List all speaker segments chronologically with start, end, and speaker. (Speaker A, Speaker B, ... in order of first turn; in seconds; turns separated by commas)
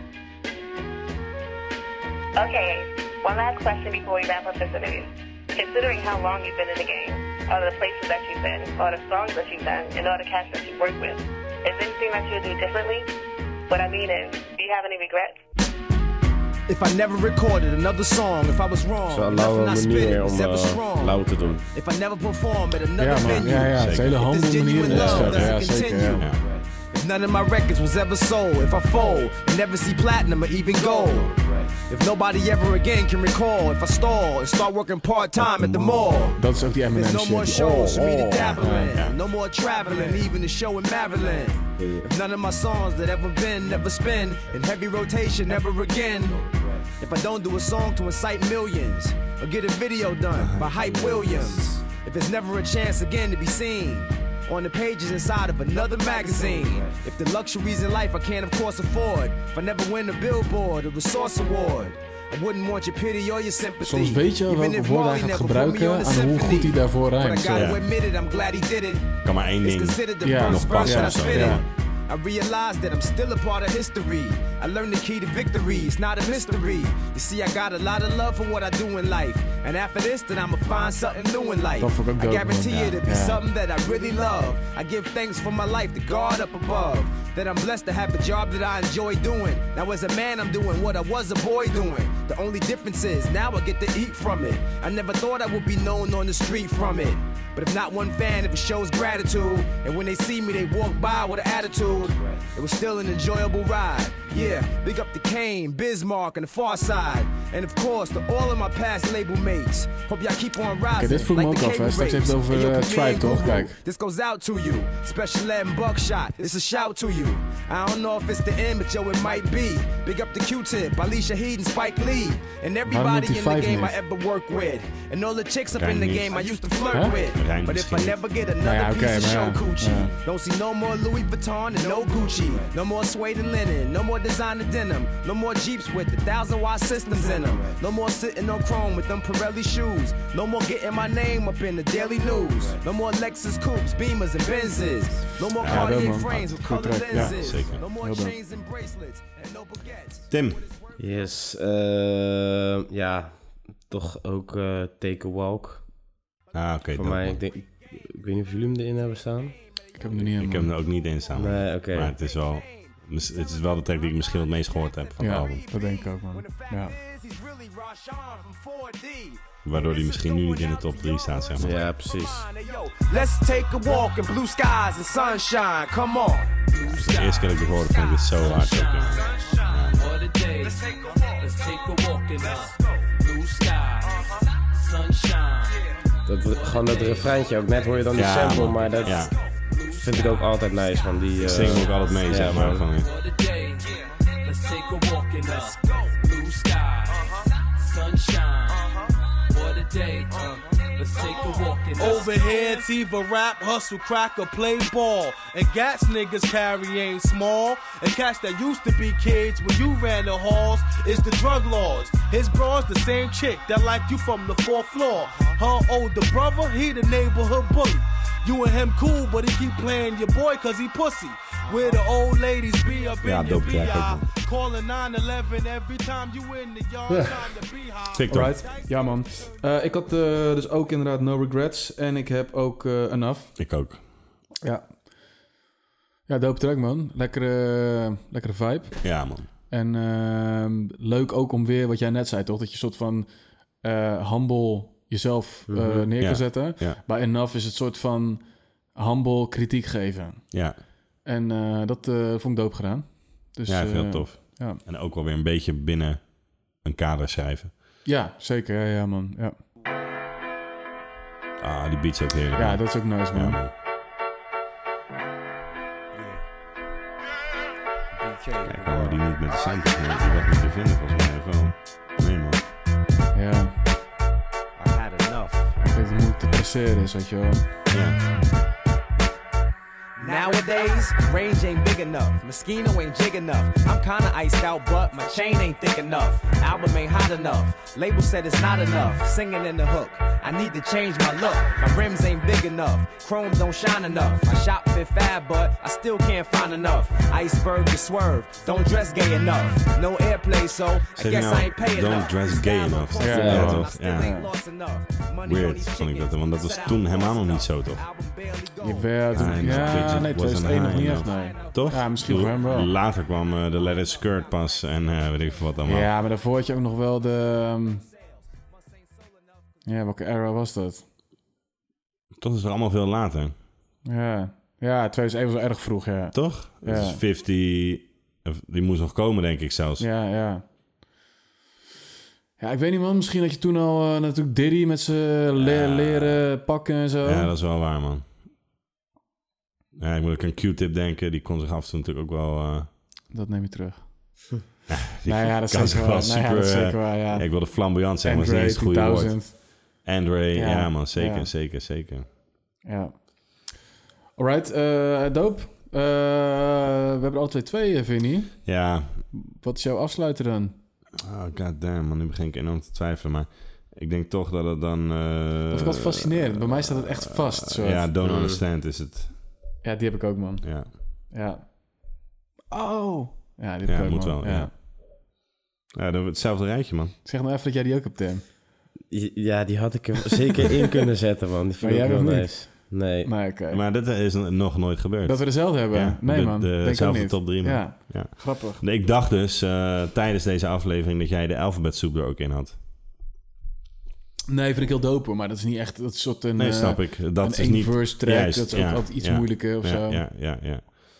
Speaker A: 2.4-13.1, Speaker A: 13.7-15.4, Speaker B: 16.7-150.9, Speaker C: 19.1-21.6, Speaker D: 23.0-26.3, Speaker E: 23.2-24.2, Speaker E: 24.9-25.6, Speaker E: 35.5-36.1, Speaker D: 36.3-39.0, Speaker E: 38.9-39.2, Speaker C: 41.8-42.1, Speaker E: 50.3-51.8, Speaker D: 63.8-67.7, Speaker E: 67.5-67.8, Speaker E: 69.2-71.6, Speaker D: 70.2-71.6, Speaker D: 81.8-83.4, Speaker D: 111.0-113.8, Speaker D: 122.9-124.0, Speaker E: 125.8-126.4, Speaker D: 126.9-127.2, Speaker E: 127.3-128.2, Speaker D: 128.6-130.2, Speaker E: 145.6-145.9, Speaker D: 145.6-148.4, Speaker E: 147.1-147.9, Speaker E: 150.3-150.6, Speaker C: 151.0-155.9, Speaker E: 156.5-157.4, Speaker C: 156.9-159.6, Speaker D: 160.0-160.8, Speaker E: 160.1-165.7, Speaker C: 161.3-162.2, Speaker B: 161.9-176.7, Speaker D: 165.2-167.0, Speaker E: 169.6-171.8, Speaker C: 171.6-172.5, Speaker F: 176.7-185.8, Speaker E: 176.8-180.1, Speaker B: 179.2-179.4, Speaker B: 180.6-181.4, Speaker C: 186.3-189.2, Speaker F: 186.4-202.4, Speaker E: 188.2-189.3, Speaker C: 189.9-192.9, Speaker E: 191.4-193.1, Speaker B: 195.5-195.8, Speaker G: 202.0-229.5, Speaker E: 223.2-224.3, Speaker D: 227.1-227.5, Speaker E: 228.1-228.6, Speaker D: 228.3-233.6, Speaker E: 233.6-234.0, Speaker D: 234.6-235.0, Speaker D: 236.3-243.3, Speaker E: 239.0-239.5, Speaker D: 243.8-250.6, Speaker C: 245.7-246.1, Speaker E: 246.2-247.0, Speaker E: 250.5-250.8, Speaker D: 251.2-254.8, Speaker E: 253.7-257.7, Speaker D: 258.0-259.6, Speaker E: 261.6-263.7, Speaker D: 262.6-263.6, Speaker E: 268.6-272.6, Speaker D: 273.3-273.8, Speaker B: 274.8-275.5, Speaker D: 275.8-277.7, Speaker E: 277.9-278.2, Speaker B: 280.2-310.4, Speaker E: 301.2-304.3, Speaker D: 303.2-304.5, Speaker C: 303.3-303.9, Speaker E: 305.4-308.0, Speaker D: 308.8-312.9, Speaker E: 309.3-316.1, Speaker B: 311.1-312.1, Speaker B: 313.8-314.6, Speaker D: 315.8-318.1, Speaker D: 319.9-321.1, Speaker E: 322.4-323.6, Speaker D: 324.1-327.2, Speaker E: 326.3-330.1, Speaker D: 330.0-330.6, Speaker D: 332.6-337.5, Speaker E: 335.6-336.5, Speaker E: 337.2-338.3, Speaker E: 340.0-342.9, Speaker D: 343.3-344.6, Speaker E: 344.9-352.3, Speaker D: 345.3-350.0, Speaker D: 350.6-351.5, Speaker D: 352.9-353.7, Speaker D: 354.4-358.8, Speaker E: 358.6-359.2, Speaker D: 359.3-360.8, Speaker E: 361.2-369.3, Speaker D: 365.7-368.1, Speaker C: 368.2-368.6, Speaker D: 369.8-372.1, Speaker E: 370.6-370.9, Speaker D: 372.7-374.7, Speaker E: 373.9-374.8, Speaker E: 375.9-377.1, Speaker D: 377.2-378.5, Speaker C: 379.1-383.3, Speaker D: 381.8-383.8, Speaker E: 383.7-392.8, Speaker D: 385.2-388.8, Speaker D: 394.5-400.3, Speaker E: 396.6-400.9